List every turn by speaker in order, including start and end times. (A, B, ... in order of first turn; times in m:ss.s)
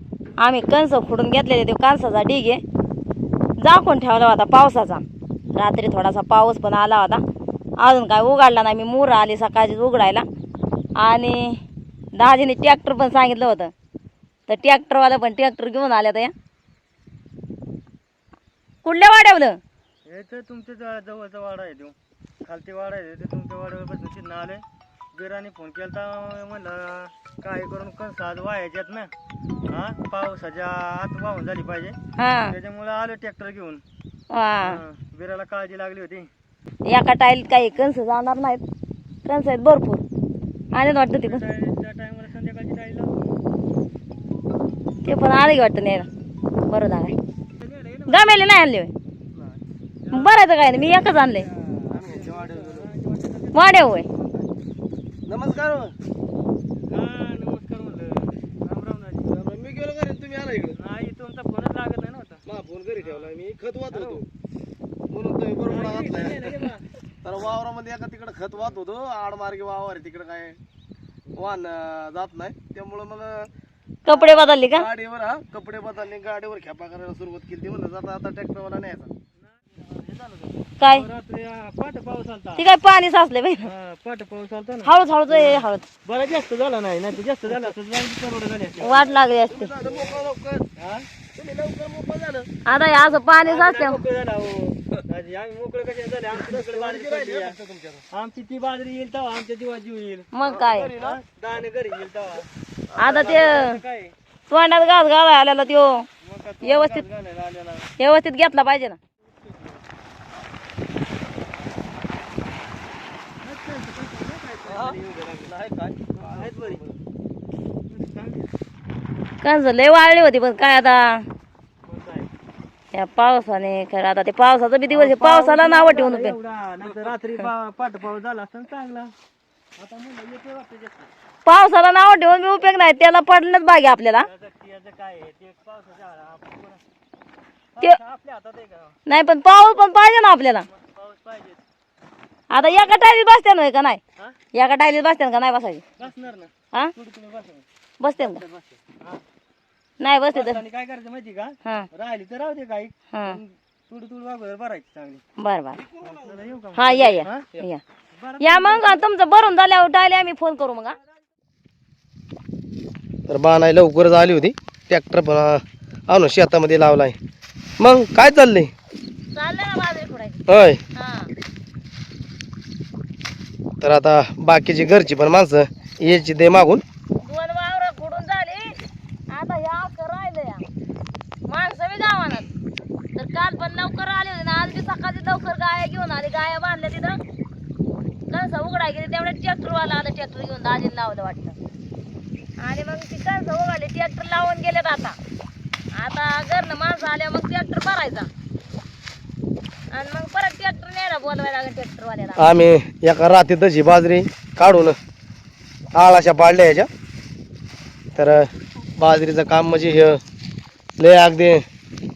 0:00.4-0:02.6 A
0:03.6-0:05.0 A
0:05.6-0:07.2 A
0:07.8-0:10.3 A
0:11.0-0:11.6 A
0:12.2-0:13.7 A
0:14.5-0:16.3 A
0:18.8-0:19.6 A
0:20.1-0:29.1 B
0:29.7-0:32.0 B
0:32.2-0:32.6 A
0:32.5-0:33.8 B
0:34.3-0:34.8 A
0:34.6-0:36.3 B
0:36.9-0:38.6 A
0:39.2-0:40.0 A
0:40.7-0:41.5 A
0:41.2-0:43.3 B
0:45.0-0:46.1 A
0:46.7-0:47.2 A
0:47.6-0:48.2 B
0:48.1-0:48.9 A
0:50.1-0:53.9 B
0:50.1-0:51.5 A
0:51.9-0:52.9 C
0:53.5-0:54.1 A
0:55.3-0:55.9 C
0:56.9-0:59.3 B
0:59.2-1:00.8 C
1:00.8-1:02.4 B
1:02.4-1:04.3 C
1:03.9-1:04.2 B
1:05.1-1:06.6 C
1:05.7-1:06.8 B
1:07.2-1:10.6 C
1:11.4-1:13.5 C
1:14.0-1:14.9 A
1:14.1-1:19.1 C
1:20.0-1:22.6 B
1:20.8-1:21.1 A
1:22.6-1:23.7 A
1:23.6-1:24.9 B
1:24.8-1:25.9 A
1:26.0-1:29.1 B
1:28.8-1:29.7 A
1:29.5-1:30.7 C
1:30.8-1:31.1 B
1:31.4-1:32.5 C
1:32.7-1:34.0 A
1:33.4-1:37.6 B
1:36.5-1:38.0 C
1:38.1-1:40.3 B
1:40.3-1:40.9 A
1:40.4-1:41.2 C
1:40.9-1:42.5 B
1:43.0-1:43.4 C
1:43.0-1:43.8 A
1:43.1-1:44.1 B
1:44.5-1:46.1 A
1:46.2-1:47.9 B
1:46.6-1:47.1 A
1:48.0-1:49.0 A
1:49.5-1:49.8 B
1:53.4-1:55.5 B
1:54.7-1:57.0 C
1:56.2-1:56.8 B
1:57.9-1:58.5 B
1:59.4-2:01.3 A
2:01.9-2:02.3 B
2:02.9-2:06.4 A
2:04.9-2:09.1 B
2:09.8-2:11.1 B
2:11.4-2:14.3 A
2:14.2-2:16.8 B
2:17.8-2:19.0 B
2:19.1-2:20.7 A
2:20.7-2:21.6 B
2:22.5-2:24.0 A
2:24.5-2:25.8 A
2:26.0-2:27.6 B
2:28.0-2:28.4 A
2:28.2-2:29.2 B
2:30.0-2:30.6 A
2:30.3-2:35.2 B
2:31.6-2:31.9 A
2:33.1-2:33.4 A
2:35.4-2:35.8 A
2:36.0-2:37.5 B
2:36.7-2:37.8 A
2:38.2-2:39.0 B
2:38.4-2:41.0 A
2:43.3-2:47.2 C
2:47.8-2:48.7 C
2:49.3-2:50.4 A
2:50.5-2:50.8 C
2:51.0-2:51.3 A
2:53.8-2:56.8 C
2:57.2-2:58.8 A
2:59.3-3:00.6 A
3:01.5-3:02.5 A
3:03.2-3:07.2 A
3:08.3-3:11.6 A
3:12.6-3:15.2 A
3:16.0-3:18.3 A
3:19.9-3:22.5 A
3:22.4-3:25.0 C
3:25.9-3:26.9 C
3:28.2-3:30.2 C
3:31.0-3:31.6 C